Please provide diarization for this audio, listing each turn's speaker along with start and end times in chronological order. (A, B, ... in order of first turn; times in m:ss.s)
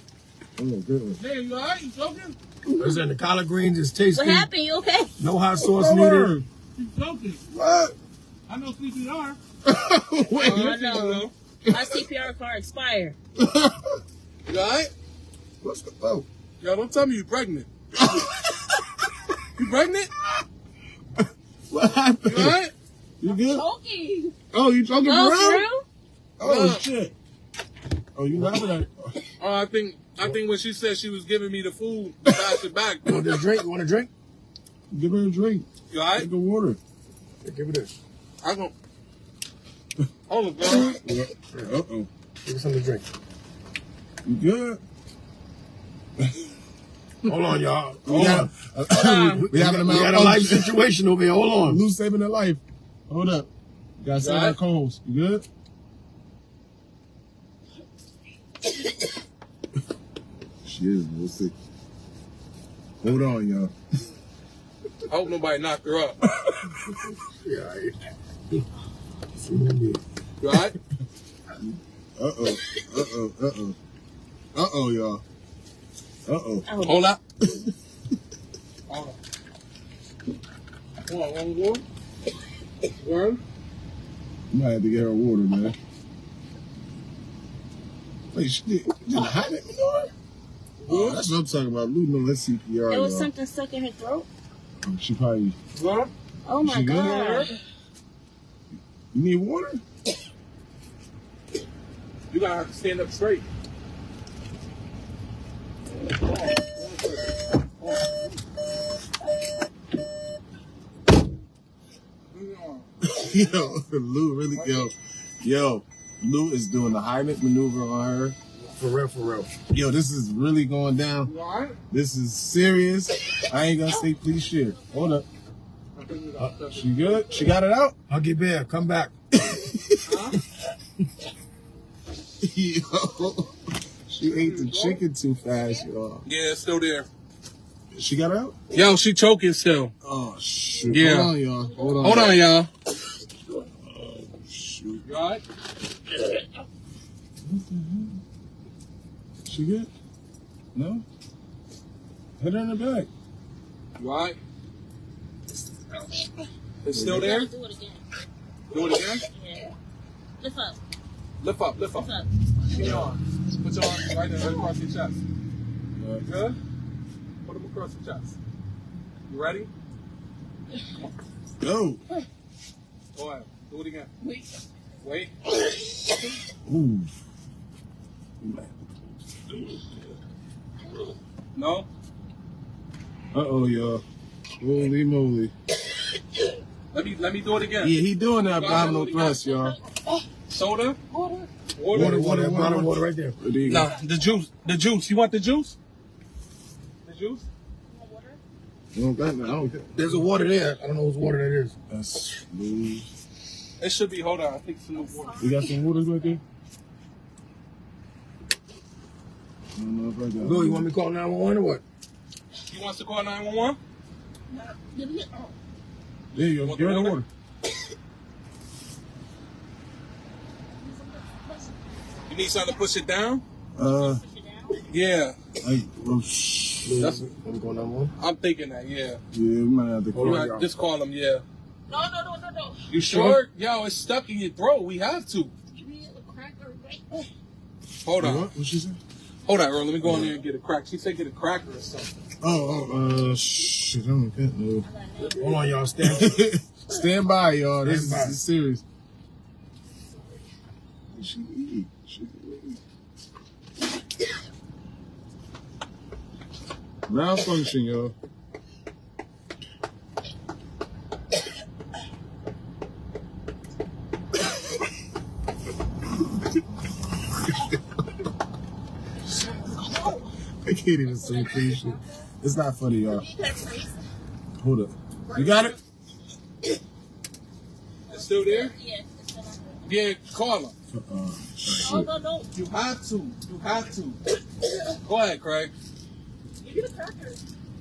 0:00.6-0:01.2 A
0:01.2-0:02.4 B
0:02.7-0:03.0 A
0:02.8-0:04.5 C
0:04.1-0:05.1 D
0:05.2-0:06.3 C
0:05.6-0:06.4 A
0:06.8-0:07.4 B
0:07.5-0:07.9 A
0:08.5-0:09.4 B
0:09.6-0:12.0 A
0:10.4-0:13.2 D
0:10.4-0:11.3 B
0:13.4-0:14.0 A
0:14.5-0:14.9 B
0:15.6-0:16.2 A
0:16.6-0:17.7 B
0:18.0-0:18.5 A
0:19.6-0:20.1 B
0:21.2-0:22.6 A
0:22.2-0:22.7 B
0:23.2-0:23.6 A
0:23.2-0:24.3 D
0:24.5-0:25.7 A
0:25.0-0:25.8 D
0:26.4-0:27.1 A
0:26.4-0:26.8 B
0:28.1-0:29.2 A
0:29.4-0:33.2 B
0:32.3-0:32.6 A
0:33.0-0:34.1 C
0:34.9-0:36.8 A
0:35.9-0:36.3 B
0:37.4-0:37.9 C
0:38.4-0:38.7 B
0:40.3-0:41.0 B
0:40.8-0:42.1 A
0:42.4-0:43.1 C
0:44.2-0:44.8 A
0:47.2-0:51.8 C
0:48.0-0:50.8 A
0:48.1-0:48.4 B
0:48.9-0:49.4 D
0:51.6-0:55.4 A
0:54.2-0:54.6 B
1:00.6-1:01.5 A
1:03.0-1:03.7 A
1:05.1-1:06.2 B
1:06.9-1:08.0 C
1:09.3-1:10.0 C
1:10.4-1:10.8 B
1:12.2-1:13.8 A
1:14.5-1:15.2 A
1:16.2-1:16.7 A
1:16.7-1:17.0 D
1:16.8-1:17.2 B
1:18.9-1:19.2 B
1:21.0-1:21.8 B
1:23.0-1:23.4 B
1:24.5-1:25.8 A
1:28.3-1:30.1 A
1:30.8-1:31.3 B
1:30.9-1:33.3 A
1:32.9-1:34.3 D
1:34.8-1:35.6 A
1:35.7-1:36.1 B
1:36.5-1:37.5 D
1:36.6-1:37.5 A
1:36.9-1:37.5 B
1:39.1-1:39.8 A
1:42.3-1:43.4 B
1:46.0-1:48.4 B
1:52.3-1:52.9 B
1:53.0-1:58.4 A
1:54.5-1:54.9 B
1:58.6-1:59.5 C
1:59.7-2:01.3 A
2:01.2-2:01.8 B
2:01.9-2:05.3 A
2:05.9-2:07.4 B
2:06.7-2:08.0 A
2:08.1-2:09.1 C
2:09.4-2:10.2 A
2:10.0-2:10.4 B
2:12.4-2:13.5 A
2:14.1-2:16.2 A
2:14.2-2:15.0 B
2:16.2-2:17.1 B
2:17.9-2:18.6 A
2:18.7-2:19.9 B
2:20.0-2:22.4 A
2:20.9-2:21.3 B
2:21.7-2:22.4 D
2:22.0-2:22.7 B
2:23.6-2:25.1 A
2:25.0-2:25.4 B
2:27.4-2:28.2 A
2:29.4-2:29.9 A
2:30.7-2:31.0 A
2:32.4-2:33.1 A
2:34.0-2:34.4 B
2:36.8-2:37.5 B
2:36.9-2:37.3 A
2:37.1-2:38.0 D
2:38.7-2:39.2 B
2:39.3-2:39.7 D
2:40.4-2:40.8 D
2:41.4-2:42.1 B
2:41.9-2:42.3 D
2:42.6-2:45.2 B
2:46.0-2:46.3 A
2:46.2-2:46.6 B
2:47.4-2:48.4 B
2:49.3-2:49.7 B
2:51.6-2:52.0 A
2:53.1-2:54.1 B
2:55.0-2:55.3 B
2:56.6-2:57.1 A
2:58.4-3:00.0 A
3:01.5-3:01.9 B
3:03.3-3:04.0 A
3:04.6-3:05.5 A
3:06.9-3:08.0 B
3:07.8-3:09.8 A
3:08.5-3:09.4 B
3:09.5-3:10.1 D
3:10.5-3:12.2 B
3:11.2-3:11.4 D
3:11.9-3:13.9 A
3:11.9-3:13.4 C
3:13.6-3:15.8 B
3:17.0-3:17.5 B
3:17.9-3:18.4 D
3:18.9-3:20.2 A
3:19.9-3:21.7 C
3:21.9-3:23.1 A
3:23.8-3:25.4 B
3:24.9-3:26.4 D
3:25.4-3:26.4 A
3:29.7-3:30.9 A
3:30.4-3:31.8 C
3:32.7-3:33.8 B
3:34.5-3:35.5 D
3:36.3-3:37.3 A
3:36.6-3:37.2 B
3:40.8-3:41.8 D
3:42.3-3:43.4 B
3:43.8-3:44.2 A
3:43.9-3:44.8 D
3:44.8-3:45.4 B
3:45.6-3:47.1 A
3:46.8-3:48.1 C
3:47.0-3:47.2 B
3:48.2-3:49.2 B
3:49.3-3:50.5 A
3:50.1-3:50.7 C
3:50.2-3:51.4 B
3:51.9-3:52.8 D
3:52.9-3:55.5 B
3:53.0-3:53.4 A
3:55.7-3:57.3 D
3:58.0-3:58.5 B
3:58.2-3:59.0 A
3:59.4-4:02.2 B
4:00.0-4:00.4 A
4:02.4-4:04.9 A
4:04.8-4:05.6 D
4:05.4-4:06.5 C
4:06.0-4:08.8 A
4:07.8-4:08.4 C
4:11.1-4:12.8 A
4:17.1-4:18.1 A
4:29.7-4:30.2 D
4:30.6-4:33.3 A
4:31.0-4:32.2 D
4:33.1-4:34.0 D
4:34.6-4:35.8 A
4:35.3-4:35.7 D
4:38.1-4:39.9 D
4:38.1-4:38.8 B
4:39.8-4:40.7 B
4:40.9-4:42.1 A
4:41.7-4:42.5 D
4:42.5-4:44.2 B
4:45.0-4:45.7 B
4:46.6-4:47.4 D